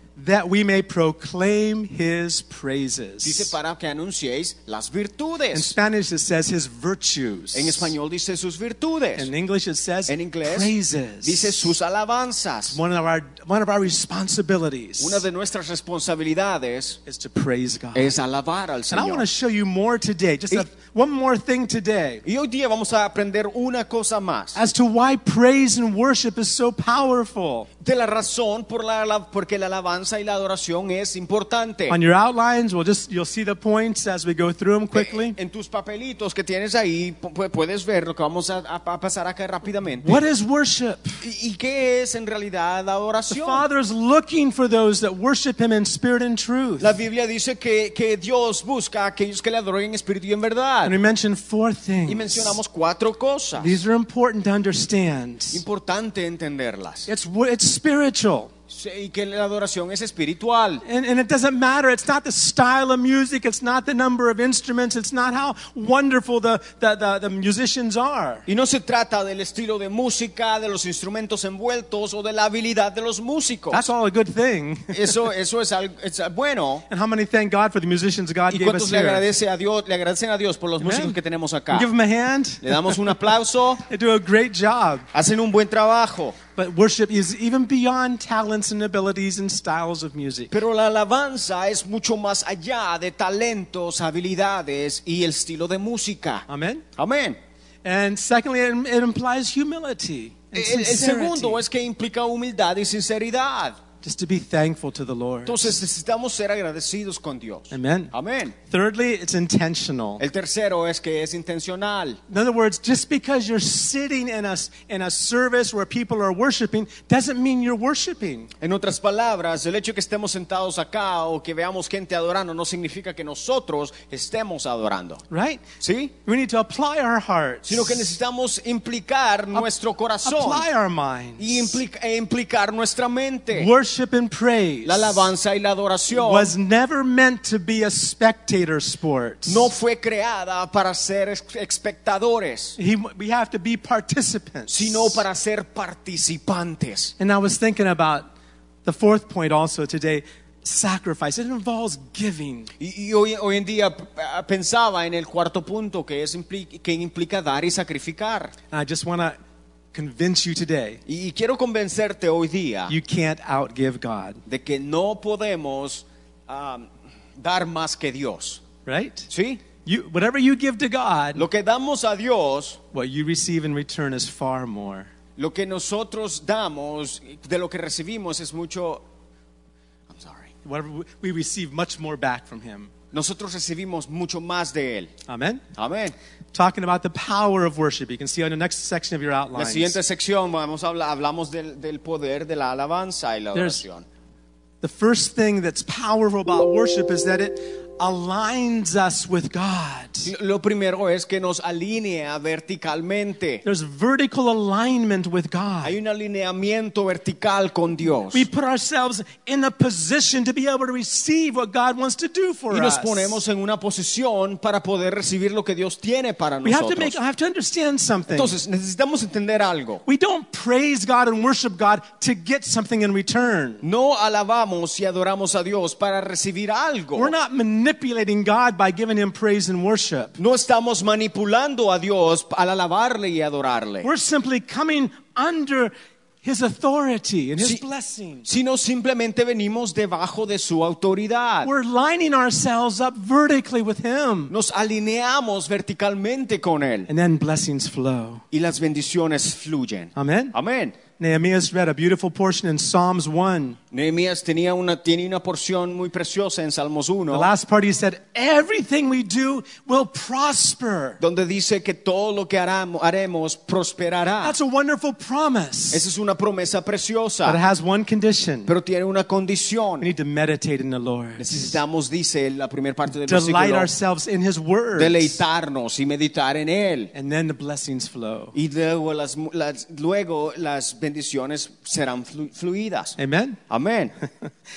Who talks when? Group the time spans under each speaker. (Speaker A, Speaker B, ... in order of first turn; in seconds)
Speaker A: 0.2-3.5, 5.5-7.9, 9.2-11.7, 12.7-15.2, 17.1-18.1, 18.9-22.2, 24.5-27.7, 31.9-35.4, 40.0-41.2, 43.3-47.0, 50.8-52.6, 53.6-55.6, 57.1-58.5, 60.8-68.5, 73.7-75.2, 76.9-79.2, 80.8-81.2, 81.7-83.3, 83.9-85.0, 86.5-90.5, 96.5-96.8, 97.8-101.6, 104.0-105.8, 107.7-110.2, 112.3-118.5, 125.3-125.6, 126.2-128.0, 130.2-131.8, 133.5-135.3, 136.1-139.7, 142.8-145.2, 147.2-148.3, 148.8-152.7, 158.7-159.4, 159.9-161.0, 162.9-164.4, 168.8-169.3, 169.8-171.4, 172.9-175.1, 180.6-182.9, 185.3-185.6, 186.5-190.0, 193.5-193.8, 194.8-200.3, 203.6-205.9, 208.3-213.4, 216.6-218.6, 220.1-223.8, 227.1-230.4, 234.0-235.9, 236.4-238.5, 241.6-244.5, 247.1-248.4, 250.2-250.6, 251.2-253.8, 257.3-261.2, 264.4-266.0, 267.4-268.7, 270.0-271.8, 273.2-275.4, 277.1-278.6, 283.2-283.6
Speaker B: 3.2-5.7, 7.5-9.3, 10.1-12.8, 15.0-17.0, 17.9-19.3, 22.2-24.6, 27.8-32.0, 34.9-40.2, 41.2-43.6, 46.8-51.0, 52.1-53.8, 55.5-57.1, 58.7-60.8, 68.5-73.8, 74.9-76.8, 78.5-81.9, 82.6-83.8, 85.1-86.4, 90.5-97.4, 100.5-103.8, 105.5-108.5, 110.2-112.2, 118.6-125.2, 125.8-126.1, 127.6-130.7, 131.4-133.7, 134.8-136.5, 139.4-142.8, 144.7-147.1, 152.8-158.5, 161.1-162.9, 164.5-168.6, 169.3-169.6, 171.3-172.8, 175.4-179.0, 180.1-180.5, 183.1-185.1, 185.8-186.1, 189.5-194.1, 200.2-203.6, 205.8-208.5, 212.7-217.2, 218.3-220.0, 223.8-227.3, 230.4-234.1, 238.4-241.7, 244.5-247.1, 248.5-251.0, 253.9-257.5, 261.2-264.6, 265.9-267.6, 268.6-270.1, 271.4-273.9, 275.0-277.1, 278.5-283.2, 283.7-284.1